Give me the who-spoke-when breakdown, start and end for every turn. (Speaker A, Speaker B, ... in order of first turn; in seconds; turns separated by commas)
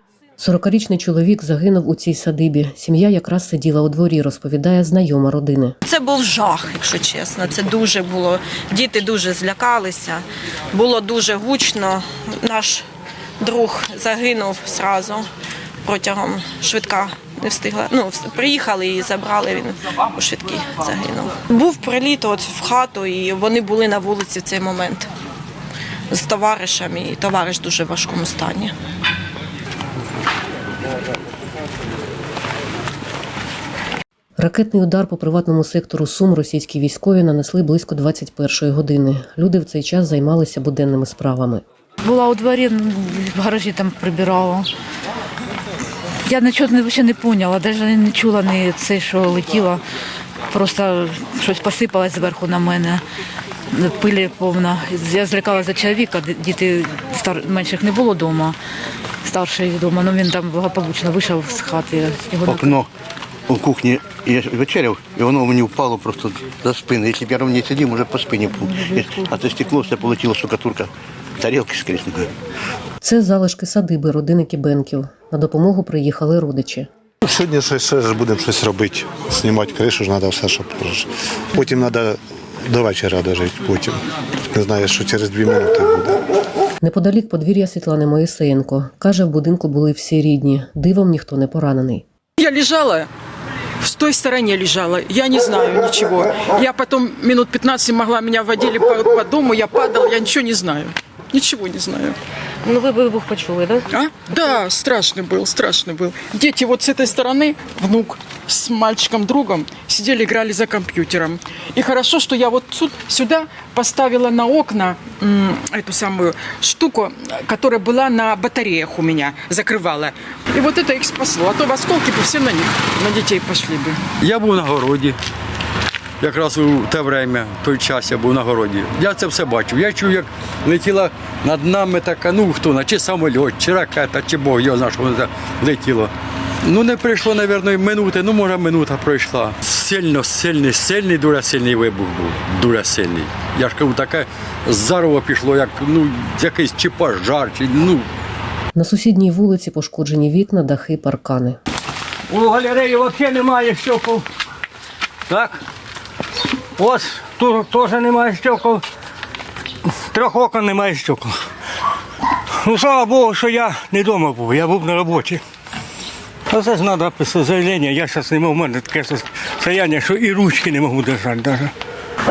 Speaker A: 0.4-5.8, Speaker B: 5.9-12.8, Speaker B: 13.4-15.3, Speaker B: 15.8-25.1, Speaker B: 26.1-28.7, Speaker A: 34.4-41.6, Speaker C: 42.0-44.7, Speaker C: 46.2-49.8, Speaker C: 50.5-53.0, Speaker C: 53.7-58.5, Speaker C: 59.2-62.8, Speaker D: 62.5-62.9, Speaker D: 63.5-70.9, Speaker C: 68.7-69.2, Speaker D: 71.4-72.3, Speaker A: 73.0-76.9, Speaker E: 77.2-84.0, Speaker E: 84.5-86.2, Speaker A: 86.8-92.0, Speaker F: 92.4-93.1, Speaker F: 93.8-102.2, Speaker C: 102.6-103.9, Speaker F: 103.9-124.0, Speaker G: 124.2-125.2, Speaker G: 126.2-136.1, Speaker G: 136.6-148.1, Speaker A: 148.7-151.6, Speaker H: 152.3-154.2, Speaker H: 155.3-155.6, Speaker H: 156.8-158.8, Speaker H: 160.1-161.3, Speaker H: 162.6-165.4, Speaker H: 166.5-171.7